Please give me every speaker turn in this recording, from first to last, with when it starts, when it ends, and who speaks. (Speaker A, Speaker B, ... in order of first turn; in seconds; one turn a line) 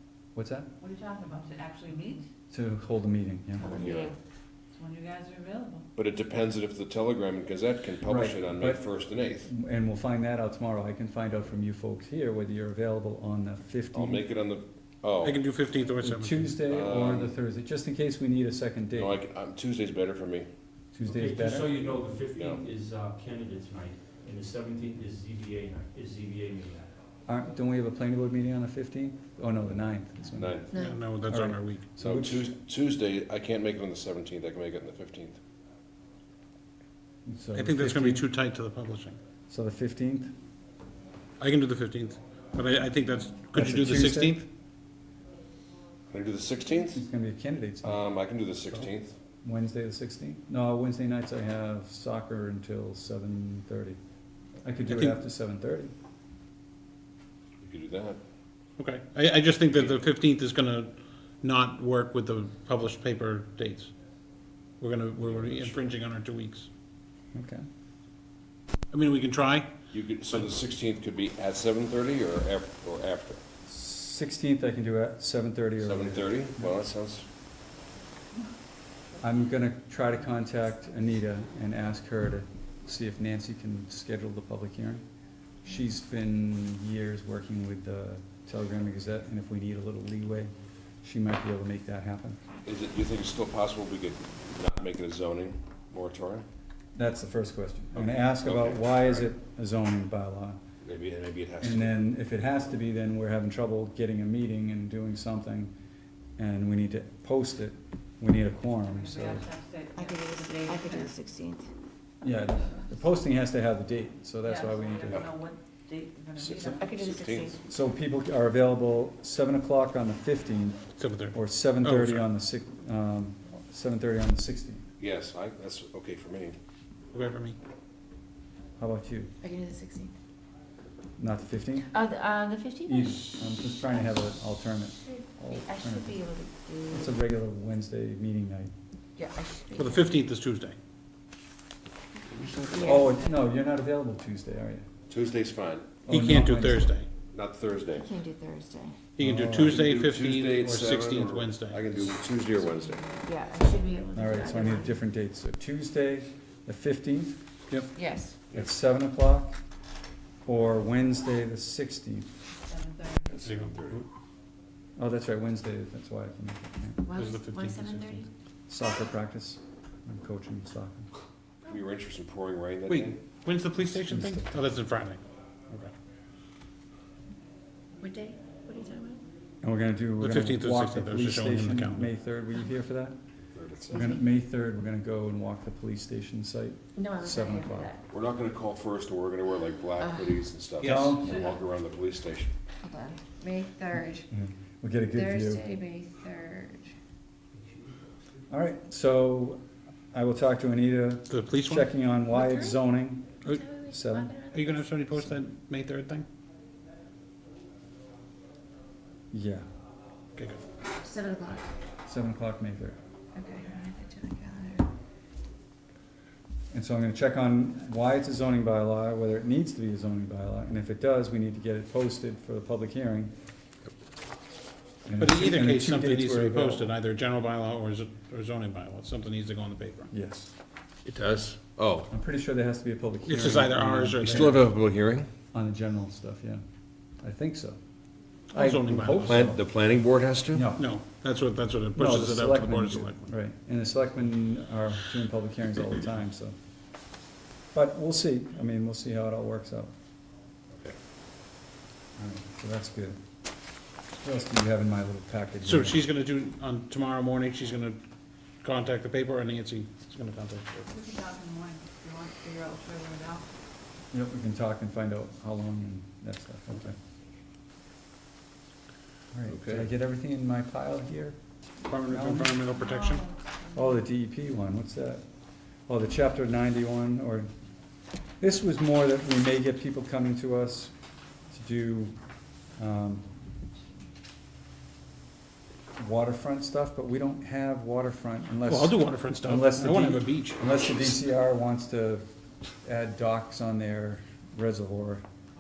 Speaker A: 0.3-0.7
Speaker B: 0.8-2.3
Speaker A: 2.5-4.0
Speaker C: 3.6-4.2
Speaker D: 3.6-4.1
Speaker B: 4.8-5.9
Speaker D: 6.0-9.5
Speaker A: 8.1-14.3
Speaker D: 13.9-15.4
Speaker E: 15.2-16.6
Speaker A: 16.0-19.2
Speaker D: 16.7-17.3
Speaker D: 18.9-20.5
Speaker A: 20.9-21.8
Speaker F: 21.0-26.9
Speaker D: 22.3-22.7
Speaker A: 27.3-32.5
Speaker D: 30.3-30.8
Speaker C: 30.7-31.0
Speaker E: 30.8-31.9
Speaker D: 32.0-35.4
Speaker A: 37.3-38.3
Speaker E: 37.5-39.2
Speaker A: 39.5-40.3
Speaker E: 41.4-44.5
Speaker A: 43.5-44.4
Speaker D: 46.1-47.0
Speaker A: 46.9-48.0
Speaker D: 47.8-49.1
Speaker A: 49.4-54.0
Speaker A: 54.6-55.9
Speaker E: 54.9-55.2
Speaker D: 57.6-58.2
Speaker E: 58.8-63.9
Speaker E: 64.8-66.7
Speaker D: 65.2-65.8
Speaker A: 67.3-67.6
Speaker E: 68.9-69.7
Speaker D: 69.9-73.4
Speaker A: 73.7-76.7
Speaker D: 75.8-77.3
Speaker A: 79.2-85.0
Speaker A: 85.6-90.5
Speaker A: 91.0-92.4
Speaker D: 92.7-96.5
Speaker A: 97.0-100.6
Speaker D: 98.0-99.3
Speaker D: 100.8-102.0
Speaker A: 101.6-105.7
Speaker A: 106.4-109.5
Speaker B: 108.9-111.2
Speaker C: 110.0-111.7
Speaker A: 112.2-115.3
Speaker B: 114.4-116.9
Speaker D: 116.4-117.6
Speaker C: 116.7-117.6
Speaker A: 117.7-120.8
Speaker E: 121.0-122.3
Speaker A: 121.3-124.8
Speaker D: 125.0-126.6
Speaker E: 127.1-127.6
Speaker A: 128.8-129.3
Speaker C: 129.4-130.1
Speaker A: 131.2-131.9
Speaker C: 131.9-133.9
Speaker A: 132.9-136.2
Speaker C: 135.0-137.2
Speaker A: 136.9-138.7
Speaker C: 139.2-140.2
Speaker E: 139.8-140.8
Speaker D: 142.3-142.9
Speaker C: 142.7-143.2
Speaker A: 142.8-144.9
Speaker D: 145.1-146.0
Speaker A: 146.1-147.0
Speaker E: 146.1-147.1
Speaker D: 147.3-148.1
Speaker C: 147.9-149.0
Speaker E: 149.2-151.8
Speaker A: 149.2-149.8
Speaker D: 149.5-153.1
Speaker C: 153.2-155.0
Speaker A: 154.1-157.4
Speaker C: 157.9-158.4
Speaker A: 158.5-159.6
Speaker A: 160.4-162.3
Speaker B: 162.6-163.3
Speaker D: 163.3-164.1
Speaker E: 163.4-164.1
Speaker A: 165.0-167.0
Speaker C: 167.1-168.3
Speaker E: 167.1-168.3
Speaker A: 168.7-171.1
Speaker D: 171.7-173.2
Speaker E: 172.9-175.9
Speaker A: 173.9-174.5
Speaker C: 178.0-179.2
Speaker A: 179.6-183.2
Speaker E: 180.2-182.1
Speaker D: 183.5-184.1
Speaker A: 183.9-187.9
Speaker C: 183.9-184.2
Speaker C: 187.0-188.0
Speaker D: 188.1-192.5
Speaker C: 190.0-190.4
Speaker E: 190.8-191.2
Speaker A: 190.8-191.4
Speaker C: 192.8-194.3
Speaker A: 194.3-195.6
Speaker C: 195.1-196.9
Speaker A: 198.5-199.6
Speaker A: 200.1-203.4
Speaker E: 201.3-201.9
Speaker C: 202.3-202.8
Speaker C: 203.4-204.8
Speaker A: 203.9-204.4
Speaker E: 204.5-206.3
Speaker A: 209.3-209.7
Speaker E: 210.4-210.6
Speaker C: 211.0-211.7
Speaker A: 212.1-213.0
Speaker C: 213.3-214.9
Speaker A: 216.7-223.3
Speaker A: 225.1-226.9
Speaker E: 225.2-230.1
Speaker A: 230.1-230.5
Speaker D: 231.1-232.1
Speaker A: 232.1-234.6
Speaker E: 233.3-234.7
Speaker D: 234.2-235.3
Speaker A: 235.5-236.6
Speaker A: 237.2-237.8
Speaker E: 238.5-239.5
Speaker A: 238.5-239.6
Speaker D: 239.3-240.7
Speaker A: 240.5-240.9
Speaker E: 240.8-243.3
Speaker A: 241.9-246.6
Speaker A: 247.7-249.9
Speaker A: 252.2-253.2
Speaker A: 254.2-256.0
Speaker E: 255.7-258.0
Speaker E: 258.6-260.9
Speaker B: 260.9-263.5
Speaker A: 264.1-267.0
Speaker A: 269.3-271.4
Speaker D: 269.5-269.9
Speaker E: 271.9-273.2
Speaker A: 272.1-272.6
Speaker B: 272.7-273.5
Speaker A: 273.7-275.2
Speaker A: 275.9-277.5
Speaker A: 278.4-280.9
Speaker A: 281.5-282.1
Speaker A: 282.8-283.3
Speaker A: 286.0-292.2
Speaker E: 288.7-290.6
Speaker A: 292.8-295.2